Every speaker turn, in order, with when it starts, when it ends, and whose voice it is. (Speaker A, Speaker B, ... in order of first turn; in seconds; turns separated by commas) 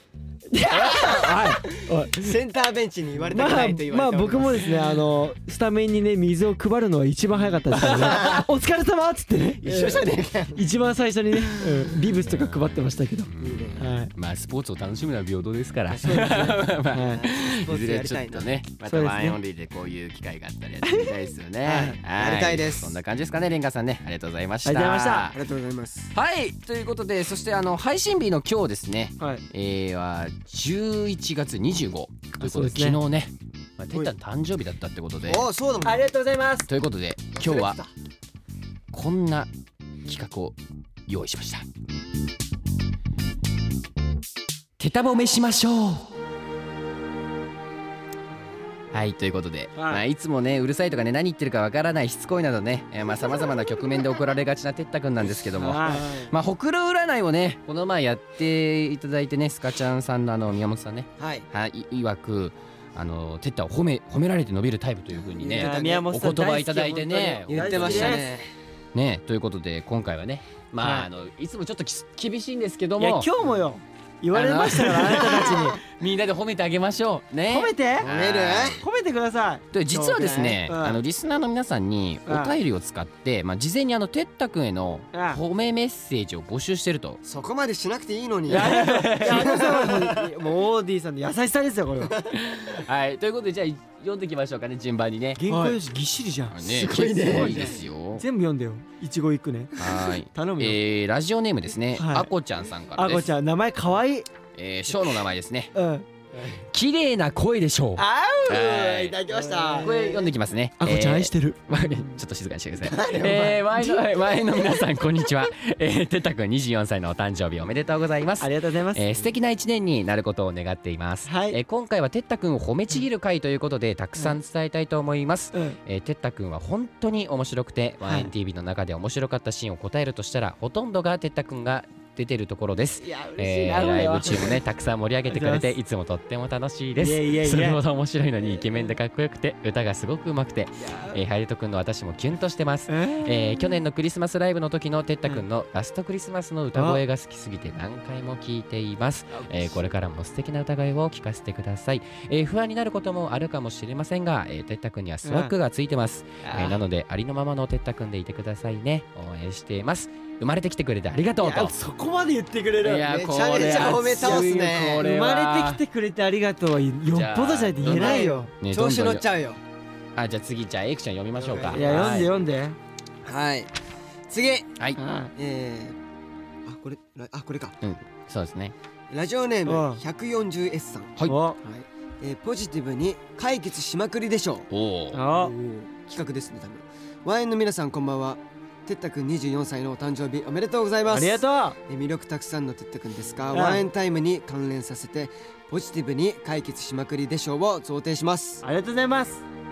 Speaker A: 0.5-2.4, Speaker B: 0.8-4.7, Speaker A: 3.3-14.1, Speaker B: 7.8-8.4, Speaker C: 7.9-8.3, Speaker B: 9.6-10.6, Speaker C: 12.2-25.4, Speaker B: 13.4-13.9, Speaker B: 15.9-18.5, Speaker A: 16.0-17.2, Speaker A: 18.9-19.4, Speaker A: 20.8-21.1, Speaker A: 21.6-22.0, Speaker B: 21.8-23.0, Speaker A: 24.6-25.3, Speaker B: 25.3-26.1, Speaker C: 26.1-35.5, Speaker A: 29.2-29.4, Speaker A: 32.4-33.0, Speaker B: 35.2-36.1, Speaker A: 35.8-36.7, Speaker C: 36.7-37.8, Speaker B: 37.4-37.9, Speaker C: 38.9-39.5, Speaker C: 40.0-41.7, Speaker C: 44.8-46.1, Speaker C: 48.9-68.3, Speaker A: 49.8-50.0, Speaker A: 55.5-56.1, Speaker B: 55.9-56.3, Speaker B: 61.2-61.5, Speaker B: 65.2-66.1, Speaker A: 65.5-68.3, Speaker B: 67.5-68.5, Speaker C: 68.9-73.3, Speaker A: 70.8-71.1, Speaker A: 73.0-75.8, Speaker C: 74.3-78.8, Speaker A: 77.5-78.1, Speaker B: 78.0-78.8, Speaker A: 78.8-79.6, Speaker C: 79.7-87.2, Speaker B: 79.9-80.6, Speaker A: 80.7-81.0, Speaker A: 82.3-82.6, Speaker A: 85.1-85.4, Speaker B: 87.2-90.3, Speaker A: 88.5-92.2, Speaker C: 88.5-89.8, Speaker C: 92.3-95.4, Speaker A: 95.4-96.6, Speaker B: 95.5-95.8, Speaker C: 96.5-98.2, Speaker B: 96.6-97.9, Speaker A: 97.2-100.8, Speaker C: 99.8-103.3, Speaker A: 102.0-102.3, Speaker A: 103.0-104.3, Speaker C: 104.5-105.7, Speaker A: 105.7-106.1, Speaker B: 106.3-106.7, Speaker C: 106.7-109.2, Speaker A: 108.0-109.9, Speaker B: 108.6-110.3, Speaker C: 109.8-161.8, Speaker A: 110.8-112.1, Speaker B: 112.8-113.8, Speaker A: 118.4-119.2, Speaker A: 121.3-121.6, Speaker A: 128.0-128.3, Speaker A: 133.0-134.6, Speaker A: 135.3-135.8, Speaker A: 137.0-137.8, Speaker A: 140.8-141.2, Speaker A: 142.9-143.7, Speaker A: 146.7-147.0, Speaker A: 155.2-155.5, Speaker A: 156.4-156.8, Speaker A: 161.4-163.1, Speaker C: 162.8-165.8, Speaker B: 163.0-165.1, Speaker A: 163.7-168.5, Speaker C: 167.1-169.2, Speaker B: 167.8-169.6, Speaker C: 170.2-172.3, Speaker B: 171.4-172.3, Speaker A: 171.7-172.8, Speaker B: 173.2-173.7, Speaker B: 174.3-174.7, Speaker A: 175.0-175.3, Speaker B: 175.4-176.0, Speaker B: 176.7-177.8, Speaker C: 177.8-178.8, Speaker B: 179.1-184.7, Speaker A: 179.7-180.0, Speaker A: 181.3-181.6, Speaker C: 184.7-185.2, Speaker A: 185.1-185.6, Speaker B: 185.3-198.6, Speaker A: 191.1-191.8, Speaker A: 193.5-193.8, Speaker A: 198.6-199.4